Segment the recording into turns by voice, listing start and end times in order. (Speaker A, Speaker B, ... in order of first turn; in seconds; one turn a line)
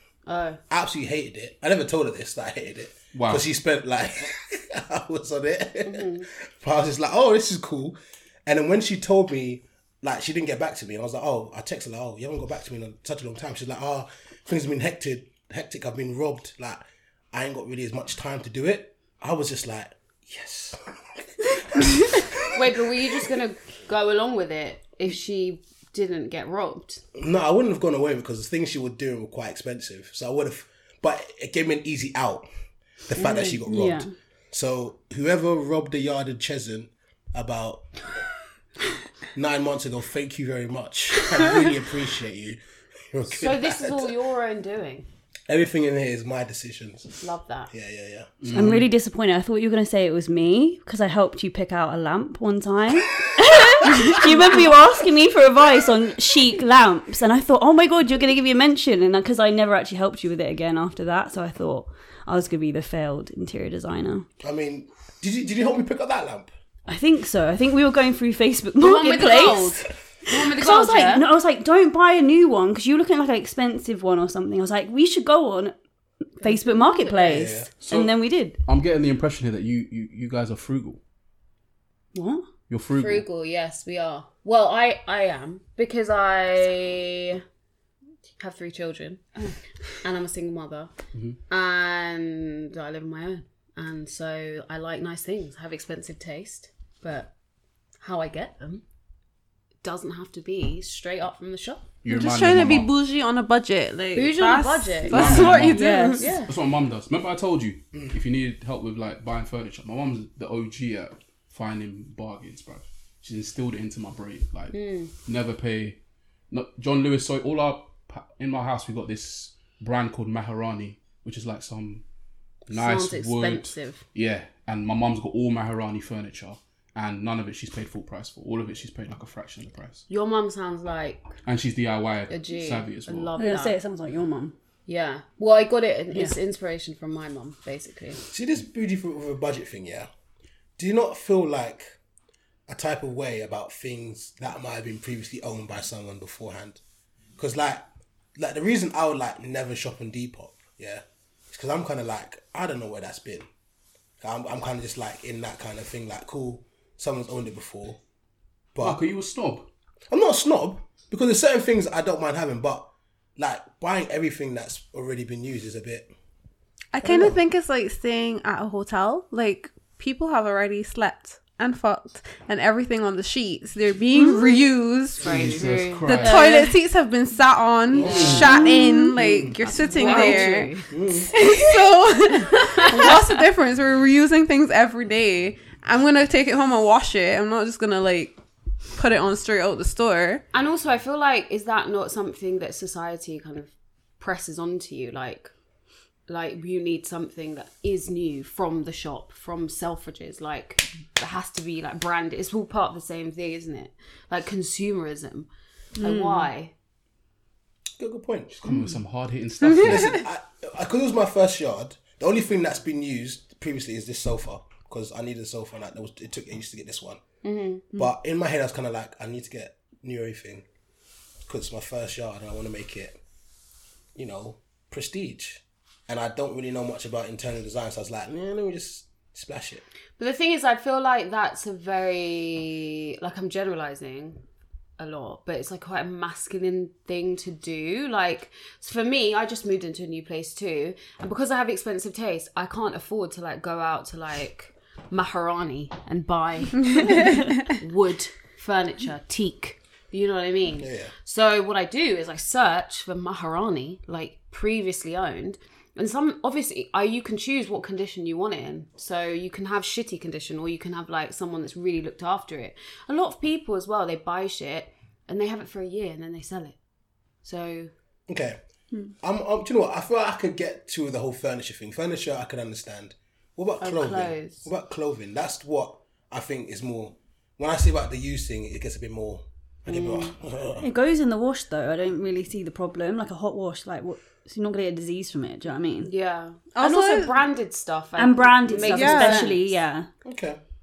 Speaker A: 0.3-0.6
Speaker B: 0.7-23.2
Speaker C: 3.1-3.5
Speaker A: 5.8-6.3
Speaker A: 22.5-27.0
Speaker B: 27.1-32.5
Speaker B: 33.1-37.9
Speaker A: 33.2-33.6
Speaker D: 33.7-34.1
Speaker B: 39.3-42.6
Speaker B: 43.1-44.2
Speaker A: 43.3-45.1
Speaker B: 45.5-48.3
Speaker A: 47.2-47.7
Speaker C: 48.4-48.9
Speaker D: 48.5-64.3
Speaker B: 64.4-66.5
Speaker D: 66.9-75.8
Speaker A: 68.8-71.3
Speaker D: 76.4-78.6
Speaker A: 76.4-77.4
Speaker B: 77.2-77.7
Speaker C: 77.8-81.0
Speaker D: 82.1-82.5
Speaker C: 82.7-83.3
Speaker A: 83.0-87.4
Speaker A: 88.4-90.9
Speaker A: 91.5-97.3
Speaker A: 98.0-98.8
Speaker A: 99.8-101.9
Speaker C: 102.0-102.9
Speaker E: 102.1-106.3
Speaker A: 104.1-106.5
Speaker C: 105.1-116.0
Speaker D: 105.7-106.3
Speaker A: 114.7-115.1
Speaker C: 116.5-122.0
Speaker A: 122.7-124.0
Speaker C: 122.7-130.1
Speaker A: 130.1-131.3
Speaker C: 131.4-133.3
Speaker A: 132.3-133.8
Speaker D: 133.4-134.5
Speaker A: 134.9-138.2
Speaker B: 138.3-140.1
Speaker B: 140.8-141.9
Speaker B: 142.7-146.8
Speaker B: 147.4-153.5
Speaker B: 154.2-158.0
Speaker B: 158.7-159.0
Speaker C: 158.8-159.7
Speaker B: 160.1-166.1
Speaker E: 166.9-175.5
Speaker B: 167.0-167.4
Speaker A: 175.2-176.6
Speaker C: 175.2-176.6
Speaker E: 176.1-180.8
Speaker D: 176.3-176.7
Speaker A: 177.9-178.7
Speaker C: 178.0-178.6
Speaker B: 178.0-178.4
Speaker D: 178.5-179.1
Speaker B: 179.2-179.6
Speaker A: 179.6-180.9
Speaker B: 180.9-181.4
Speaker E: 181.3-188.4
Speaker A: 182.5-183.4
Speaker E: 188.9-190.4
Speaker A: 190.5-195.5
Speaker A: 196.3-205.5
Speaker D: 206.0-206.5
Speaker A: 206.0-206.7
Speaker B: 208.0-208.6
Speaker C: 208.5-210.2
Speaker E: 209.7-210.1
Speaker B: 209.8-217.2
Speaker A: 217.4-217.9
Speaker B: 217.9-220.7
Speaker B: 221.5-223.2
Speaker B: 224.2-229.8
Speaker A: 230.2-234.4
Speaker A: 235.0-266.8
Speaker E: 247.0-247.5
Speaker B: 250.8-251.1
Speaker A: 267.4-267.9
Speaker B: 268.3-268.6
Speaker B: 269.2-280.9
Speaker A: 273.8-274.7
Speaker A: 279.9-280.4
Speaker D: 280.8-286.1
Speaker A: 286.0-289.8
Speaker E: 286.7-287.4
Speaker D: 288.2-290.1
Speaker E: 288.8-289.5
Speaker B: 290.2-290.6